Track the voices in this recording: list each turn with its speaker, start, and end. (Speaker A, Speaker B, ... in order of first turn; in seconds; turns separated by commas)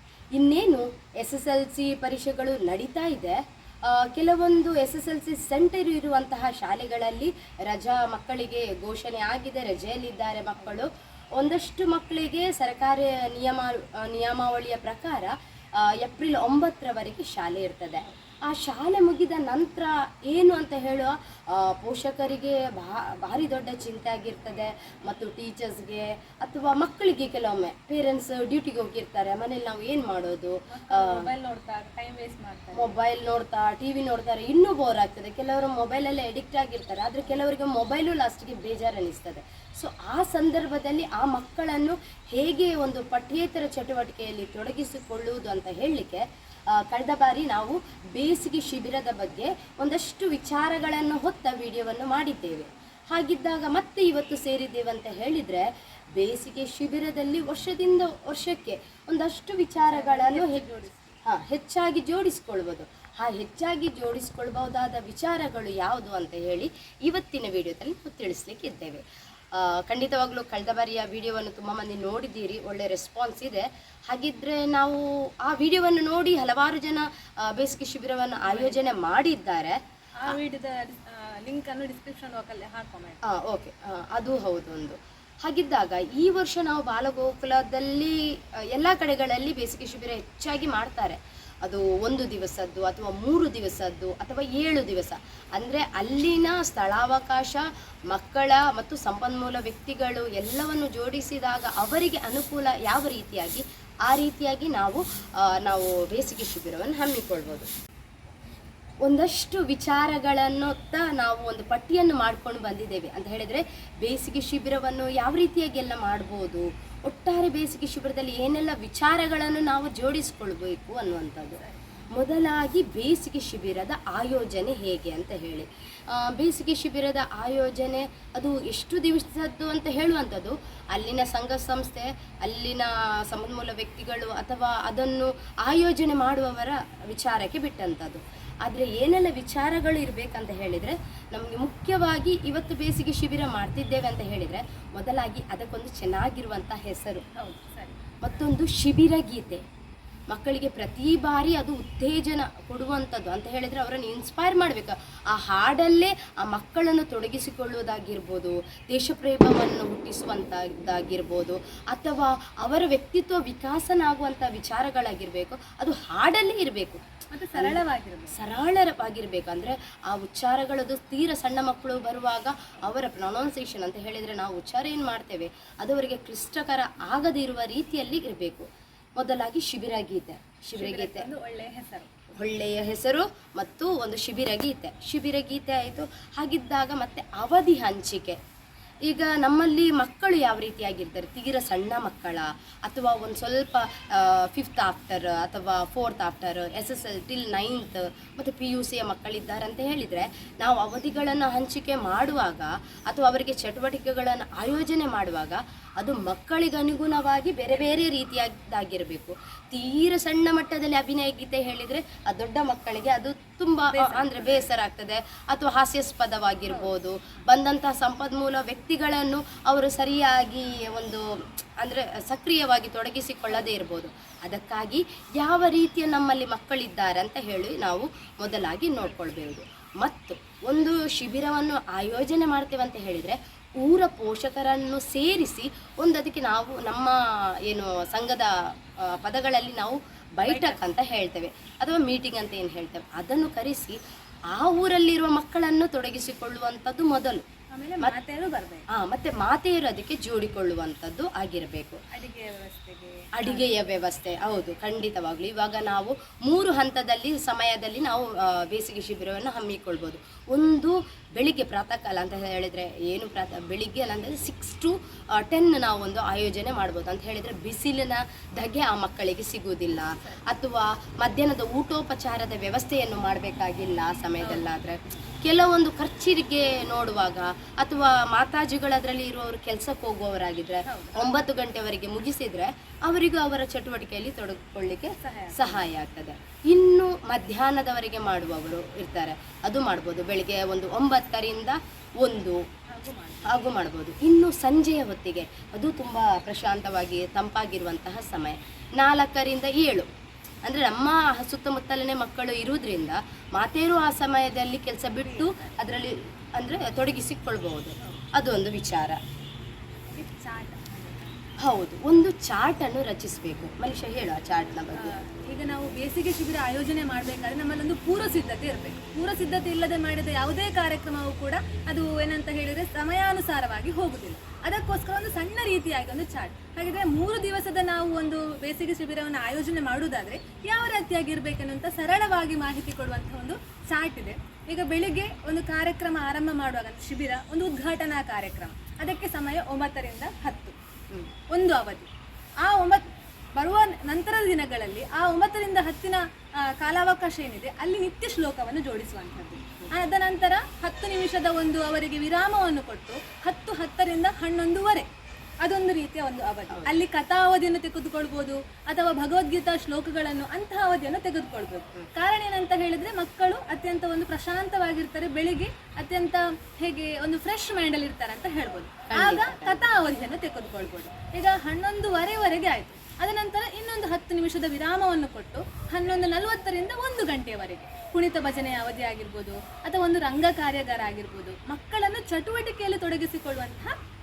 Speaker A: 0.3-31.3, Speaker B: 30.7-32.9, Speaker A: 32.7-46.2, Speaker A: 46.7-60.6, Speaker B: 59.8-61.2, Speaker A: 61.2-69.0, Speaker A: 69.5-80.3, Speaker B: 78.4-78.8, Speaker B: 80.2-83.2, Speaker A: 83.2-105.0, Speaker A: 105.5-107.7, Speaker A: 109.0-121.6, Speaker B: 121.6-121.8, Speaker A: 122.1-147.2, Speaker B: 147.3-148.5, Speaker A: 148.2-149.6, Speaker A: 150.3-167.0, Speaker B: 167.3-168.4, Speaker A: 167.5-167.8, Speaker A: 168.3-181.3, Speaker B: 180.7-182.1, Speaker A: 182.4-188.4, Speaker A: 189.1-244.0, Speaker B: 207.7-208.0, Speaker B: 213.9-214.7, Speaker B: 216.7-216.9, Speaker B: 240.4-240.8, Speaker A: 244.5-247.4, Speaker B: 247.7-248.8, Speaker A: 248.9-252.0, Speaker B: 252.1-253.7, Speaker A: 253.3-292.6, Speaker B: 270.2-270.4, Speaker B: 274.4-274.6, Speaker B: 280.8-281.4, Speaker B: 285.2-285.9, Speaker B: 292.9-293.6, Speaker A: 293.4-300.1, Speaker A: 300.6-309.2, Speaker B: 305.1-305.8, Speaker B: 310.1-311.4, Speaker A: 311.6-315.1, Speaker B: 314.9-340.8, Speaker B: 341.5-342.1, Speaker B: 342.6-355.1, Speaker B: 355.6-383.9, Speaker A: 369.1-369.9